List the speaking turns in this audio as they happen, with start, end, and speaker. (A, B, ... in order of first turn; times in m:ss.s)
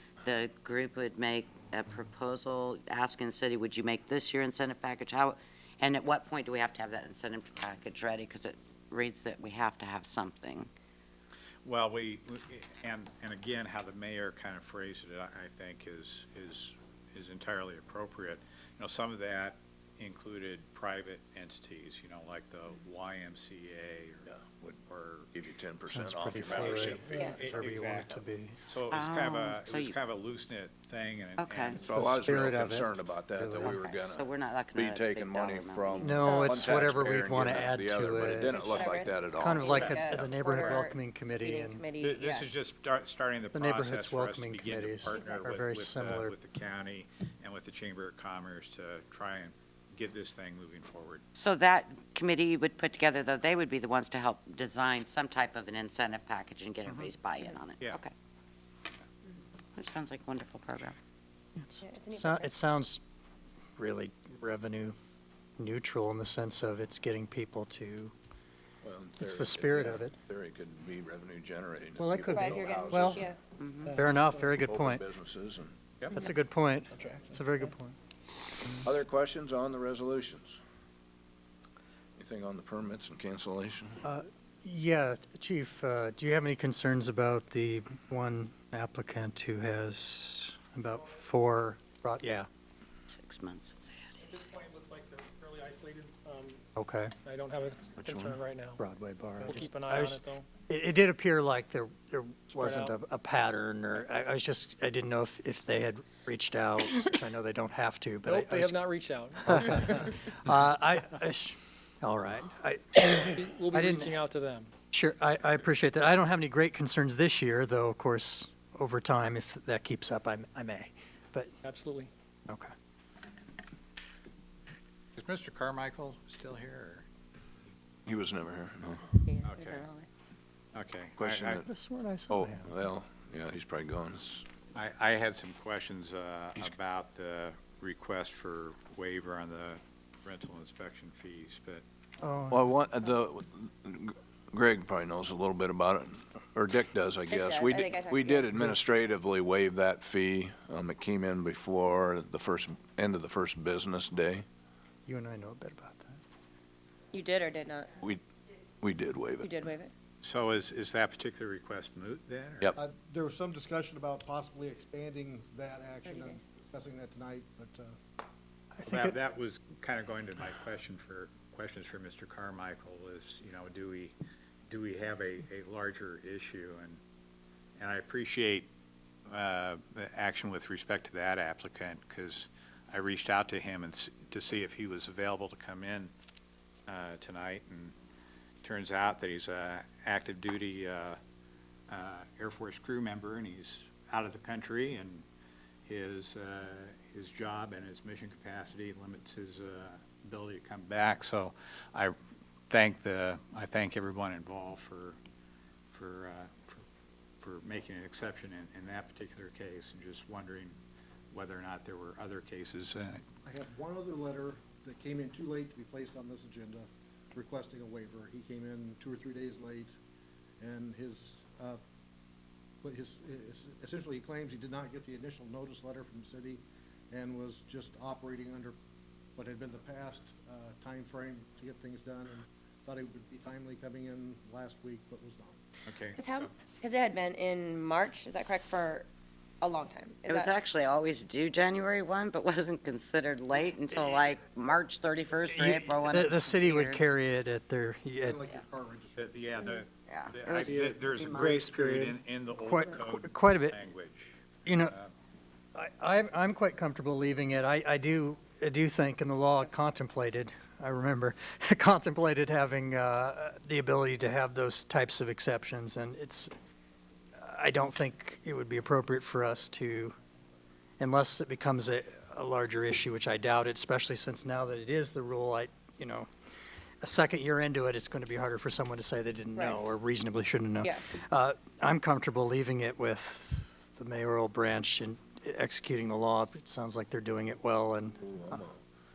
0:00.2-0:10.7 A
0:11.6-0:24.3 B
0:24.8-0:25.3 B
0:25.4-0:27.2 C
0:25.9-0:28.6 D
0:26.3-0:31.9 B
0:27.0-0:27.5 E
0:28.9-0:30.0 A
0:31.4-0:31.8 A
0:31.8-0:33.7 D
0:31.8-0:40.2 C
0:33.4-0:36.7 A
0:36.0-0:38.6 D
0:36.2-0:36.6 E
0:38.5-0:42.5 E
0:39.3-0:41.9 D
0:39.7-0:40.1 B
0:42.0-0:51.2 B
0:43.5-0:46.3 D
0:45.1-0:45.4 E
0:51.4-0:58.1 A
0:59.8-1:01.0 A
1:01.6-1:03.0 D
1:01.8-1:02.5 E
1:03.8-1:05.0 D
1:05.6-1:08.1 D
1:08.8-1:13.3 C
1:09.2-1:10.2 D
1:12.0-1:13.2 D
1:12.3-1:13.4 E
1:13.6-1:14.0 A
1:14.0-1:15.0 D
1:14.4-1:15.8 C
1:16.1-1:18.0 D
1:18.8-1:20.6 C
1:22.2-1:24.0 C
1:24.0-1:32.5 D
1:33.1-1:34.2 A
1:34.2-1:36.6 F
1:36.8-1:37.1 D
1:37.2-1:38.8 F
1:38.0-1:38.4 C
1:38.8-1:48.8 D
1:39.4-1:40.5 F
1:42.5-1:43.0 F
1:48.2-1:50.1 F
1:49.4-1:54.2 D
1:53.3-1:54.7 F
1:54.9-2:01.5 D
2:01.6-2:02.1 F
2:05.2-2:07.1 B
2:08.1-2:09.1 C
2:09.3-2:10.1 E
2:09.4-2:09.9 B
2:10.7-2:11.6 B
2:11.2-2:11.7 C
2:11.6-2:12.7 D
2:12.3-2:14.5 C
2:14.7-2:21.8 B
2:22.2-2:22.7 D
2:22.5-2:34.4 C
2:27.3-2:28.5 E
2:35.1-2:36.2 D
2:37.1-2:38.0 E
2:38.8-2:39.6 C
2:39.4-2:39.9 E
2:40.2-2:42.7 B
2:42.8-2:48.0 G
2:46.0-2:46.4 E
2:48.8-2:49.1 D
2:48.9-2:54.2 B
2:54.7-2:57.0 B
2:57.8-2:58.7 B
2:59.3-3:06.1 B
3:06.9-3:07.9 B
3:08.6-3:11.2 B
3:11.9-3:15.3 B
3:15.9-3:22.2 B
3:22.7-3:25.2 B
3:25.9-3:26.8 B
3:27.4-3:30.8 B
3:31.3-3:33.2 B
3:33.4-3:40.0 G
3:40.6-3:41.8 G
3:42.8-3:48.8 G
3:49.4-3:55.6 G
3:55.9-3:56.5 B
3:56.2-3:59.1 E
3:59.6-4:00.5 E
4:00.3-4:07.0 A
4:05.6-4:08.4 D
4:08.2-4:09.4 G
4:09.2-4:15.1 B
4:10.1-4:11.7 A
4:12.6-4:13.8 D
4:14.6-4:14.9 D
4:15.8-4:26.5 D
4:27.4-4:30.2 D
4:31.0-4:36.3 D
4:37.0-4:48.2 D
4:48.2-4:48.8 C